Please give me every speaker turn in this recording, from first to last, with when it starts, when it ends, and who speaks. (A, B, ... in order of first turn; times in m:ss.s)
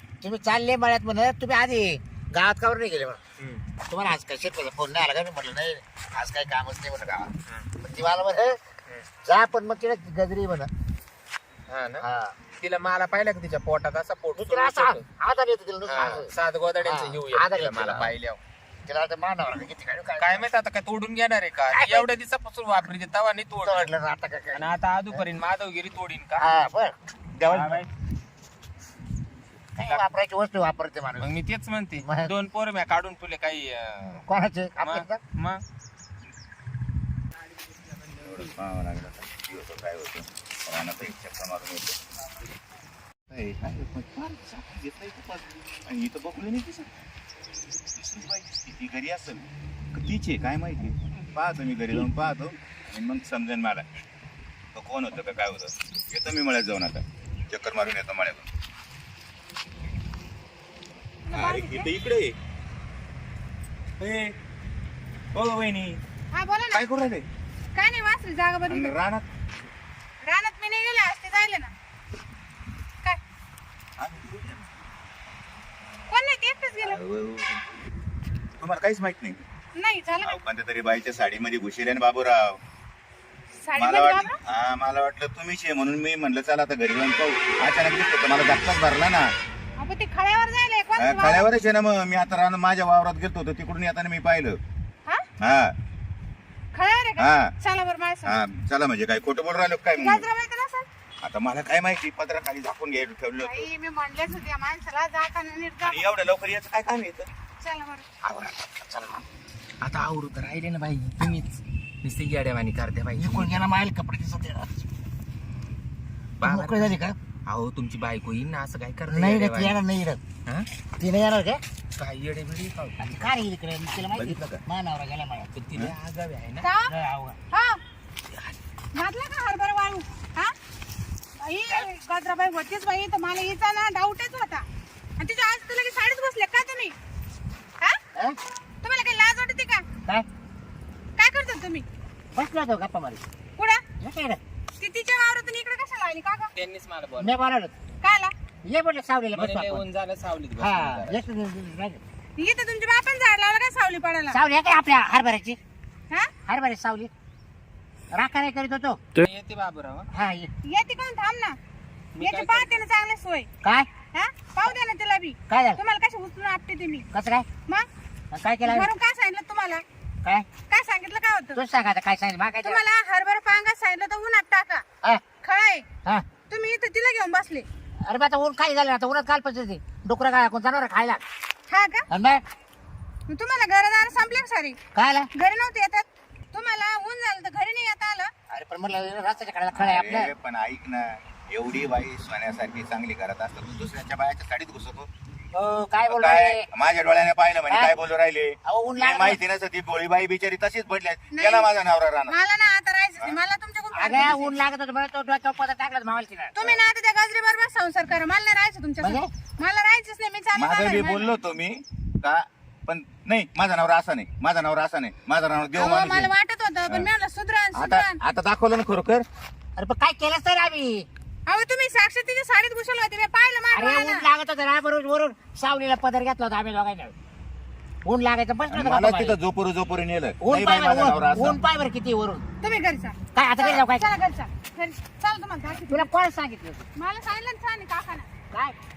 0:00.2-0:03.2 A
0:03.4-0:03.6 B
0:03.9-0:08.6 A
0:09.2-0:10.7 A
0:11.7-0:12.0 B
0:12.0-0:12.4 A
0:12.6-0:15.0 B
0:14.4-0:16.3 A
0:15.9-0:18.4 B
0:16.8-0:18.1 A
0:18.9-0:20.5 A
0:20.2-0:23.9 B
0:21.7-0:22.1 A
0:23.6-0:25.2 A
0:24.5-0:26.6 B
0:26.4-0:27.8 A
0:27.5-0:27.9 B
0:29.8-0:31.3 A
0:29.8-0:30.1 B
0:31.2-0:34.3 B
0:32.0-0:32.3 A
0:34.3-0:35.2 A
0:34.8-0:35.6 B
0:38.2-0:42.0 C
0:43.3-0:47.1 C
0:48.0-0:53.9 C
0:54.8-0:58.5 C
1:01.2-1:01.9 D
1:01.3-1:02.4 C
1:04.0-1:04.3 C
1:05.3-1:06.0 C
1:06.3-1:06.8 D
1:06.7-1:07.2 C
1:07.7-1:09.0 D
1:08.7-1:09.3 C
1:10.2-1:11.7 D
1:14.0-1:14.8 C
1:16.1-1:17.0 D
1:16.8-1:17.6 C
1:18.6-1:19.4 C
1:19.8-1:20.4 D
1:20.2-1:22.6 C
1:23.6-1:24.4 D
1:23.8-1:29.3 C
1:29.8-1:31.5 D
1:31.0-1:34.6 C
1:35.4-1:35.7 C
1:36.7-1:38.4 D
1:37.2-1:37.5 C
1:38.2-1:40.3 C
1:40.0-1:40.9 D
1:41.2-1:43.7 C
1:43.4-1:46.1 D
1:45.8-1:47.3 C
1:47.6-1:48.1 D
1:48.2-1:49.2 A
1:49.8-1:53.5 B
1:53.2-1:54.9 A
1:56.4-1:59.8 B
1:56.4-1:57.2 A
1:59.1-2:00.2 A
2:01.0-2:01.6 A
2:02.0-2:03.3 B
2:03.0-2:05.5 A
2:04.1-2:04.6 B
2:05.6-2:06.7 B
2:06.6-2:06.9 D
2:06.9-2:07.4 A
2:07.5-2:07.8 D
2:08.9-2:10.5 D
2:11.4-2:14.6 D
2:15.2-2:17.0 D
2:18.8-2:19.8 D
2:21.2-2:21.8 D
2:22.3-2:23.2 A
2:23.6-2:23.8 D
2:24.0-2:24.4 A
2:24.8-2:26.5 D
2:26.5-2:27.3 B
2:27.2-2:27.8 A
2:28.0-2:28.3 D
2:28.6-2:29.8 A
2:29.4-2:31.2 B
2:30.6-2:32.0 A
2:32.4-2:34.4 D
2:34.3-2:35.6 A
2:36.5-2:37.1 A
2:38.1-2:39.0 A
2:39.2-2:40.1 B
2:40.1-2:40.5 A
2:40.7-2:41.6 D
2:42.2-2:42.8 B
2:42.2-2:43.5 D
2:43.6-2:43.9 A
2:44.1-2:47.1 D
2:45.5-2:45.8 A
2:47.1-2:47.5 A
2:48.3-2:48.9 A
2:48.7-2:49.8 D
2:50.7-2:51.6 D
2:51.5-2:52.8 A
2:52.6-2:54.8 D
2:55.4-2:55.9 D
2:56.5-2:57.7 D
2:58.1-3:01.2 A
3:01.7-3:02.0 D
3:02.1-3:02.4 A
3:03.3-3:04.8 D
3:05.0-3:05.3 A
3:05.4-3:08.3 D
3:08.5-3:10.3 A
3:09.7-3:15.1 C
3:15.5-3:16.7 A
3:16.1-3:22.4 C
3:18.7-3:19.4 A
3:21.3-3:21.7 D
3:22.3-3:24.6 D
3:23.9-3:26.7 A
3:26.6-3:31.3 D
3:29.0-3:29.3 A
3:30.6-3:36.3 C
3:35.7-3:38.2 D
3:37.7-3:39.2 C
3:39.8-3:41.1 A
3:41.5-3:44.3 D
3:43.7-3:47.1 A
3:48.1-3:49.4 A
3:48.7-3:51.6 C
3:50.4-3:52.4 A
3:52.6-3:56.1 D
3:53.3-3:54.1 A
3:55.9-3:56.9 A
3:57.0-3:58.3 D
3:58.5-3:58.8 A